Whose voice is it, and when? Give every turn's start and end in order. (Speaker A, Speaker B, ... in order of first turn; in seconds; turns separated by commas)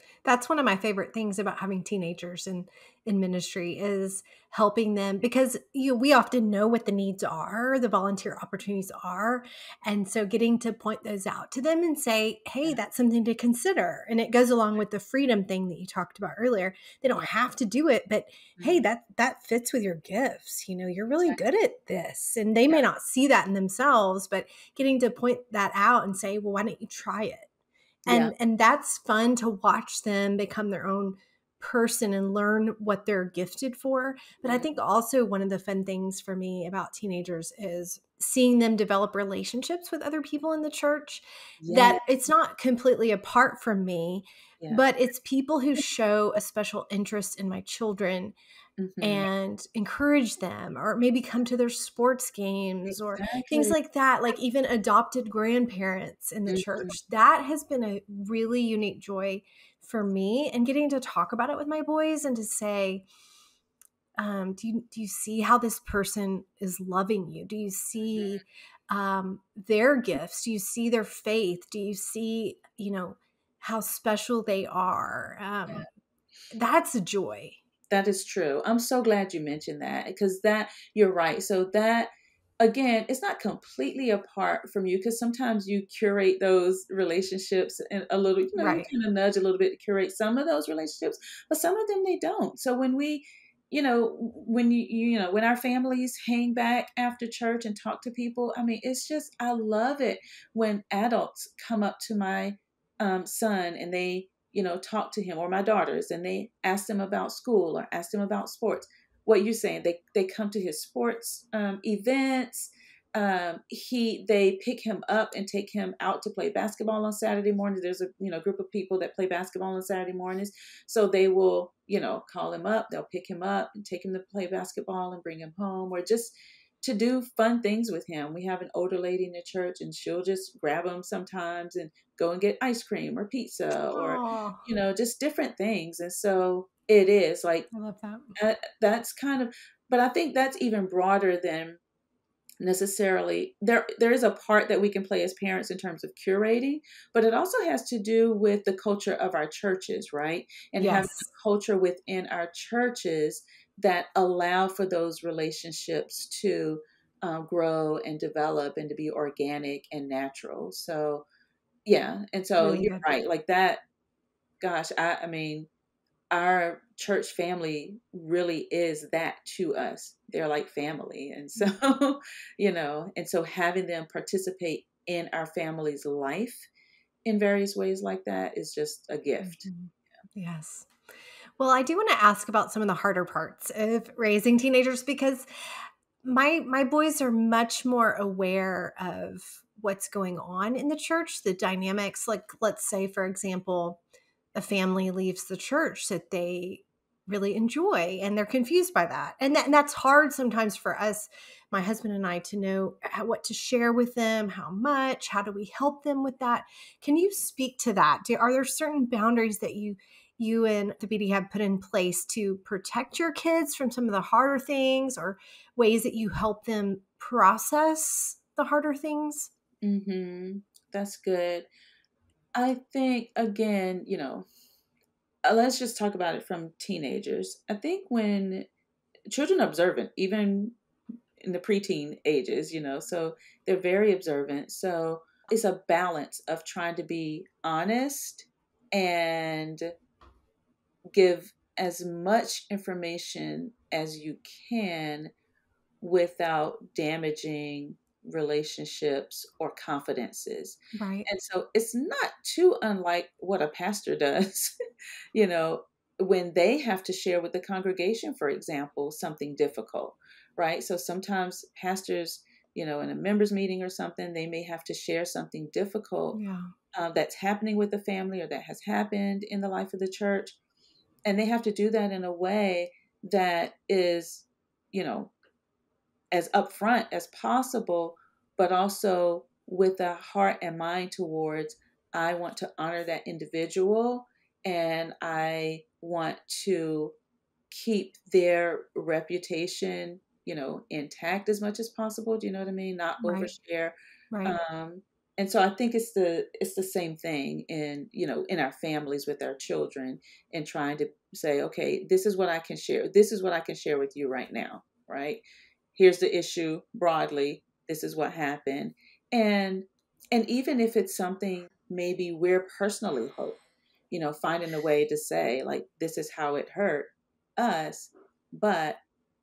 Speaker A: 0.2-27.5, Speaker B: 18.6-18.8, Speaker B: 28.1-28.3, Speaker A: 28.1-48.3, Speaker B: 34.4-34.7, Speaker B: 41.6-42.0, Speaker B: 48.8-49.3, Speaker A: 49.0-63.0, Speaker B: 53.1-53.8, Speaker B: 56.5-56.9, Speaker A: 64.2-75.9, Speaker B: 68.0-68.4, Speaker A: 76.5-77.6, Speaker B: 77.9-82.1, Speaker B: 82.6-137.7, Speaker A: 88.6-88.9, Speaker A: 133.9-134.6, Speaker A: 137.7-138.3, Speaker B: 138.3-141.8, Speaker B: 142.6-161.2, Speaker A: 150.8-151.3, Speaker B: 161.8-163.8, Speaker A: 162.6-163.1, Speaker B: 164.6-165.7, Speaker B: 166.3-176.7, Speaker B: 177.2-179.7, Speaker A: 179.4-180.9, Speaker A: 181.6-185.5, Speaker A: 186.2-194.0, Speaker A: 194.5-219.5, Speaker B: 219.8-221.7, Speaker B: 222.5-224.4, Speaker B: 225.4-228.7, Speaker B: 229.3-230.8, Speaker B: 231.4-239.9, Speaker B: 241.1-245.3, Speaker B: 246.0-254.7, Speaker A: 250.9-251.3, Speaker B: 255.3-266.4, Speaker A: 266.3-266.7, Speaker B: 266.9-270.6, Speaker B: 271.2-275.3, Speaker B: 276.3-287.1, Speaker B: 287.7-305.4, Speaker A: 293.2-293.5, Speaker B: 305.9-313.6, Speaker B: 314.1-319.0